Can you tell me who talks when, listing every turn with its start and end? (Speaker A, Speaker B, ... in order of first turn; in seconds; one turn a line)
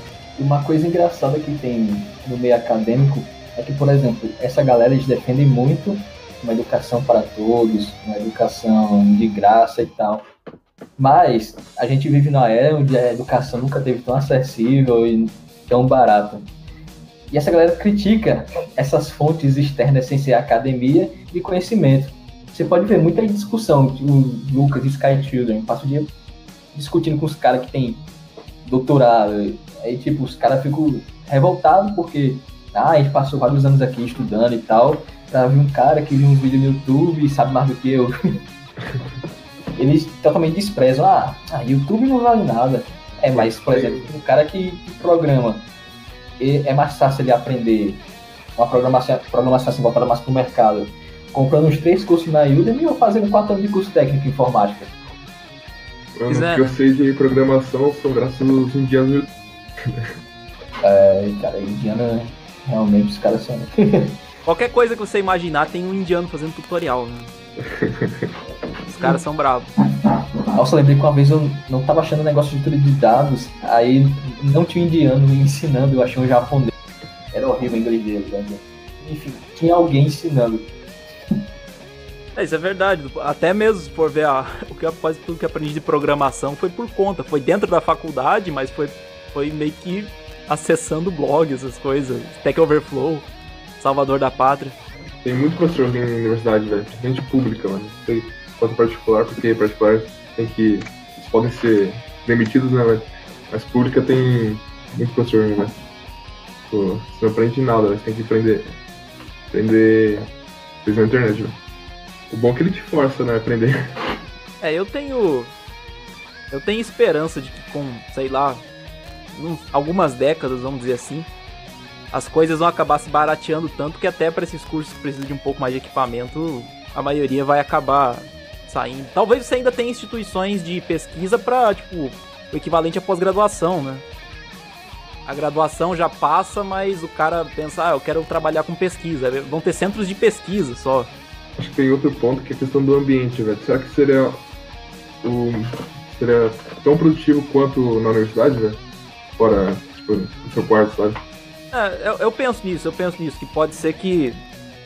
Speaker A: 0.4-10.2
Speaker A: 11.0-16.4
Speaker A: 17.3-26.1
Speaker A: 26.7-28.0
Speaker A: 28.6-38.1
Speaker A: 39.8-45.7
Speaker B: 43.3-44.1
Speaker A: 46.4-48.0
Speaker A: 48.6-54.9
Speaker B: 56.1-59.3
Speaker C: 56.3-56.7
Speaker A: 60.8-64.1
Speaker C: 64.5-67.3
Speaker B: 67.6-68.3
Speaker C: 68.8-69.7
Speaker A: 70.0-76.7
Speaker A: 77.3-80.7
Speaker C: 82.3-93.2
Speaker C: 93.8-94.8
Speaker B: 95.2-105.7
Speaker B: 106.7-108.7
Speaker B: 109.5-110.3
Speaker B: 110.8-111.6
Speaker B: 112.3-113.7
Speaker C: 114.6-115.5
Speaker C: 116.5-118.6
Speaker C: 119.3-121.3
Speaker C: 122.1-134.0
Speaker C: 135.2-141.1
Speaker B: 141.6-144.4
Speaker B: 145.2-148.8
Speaker B: 149.4-151.2
Speaker C: 151.7-154.4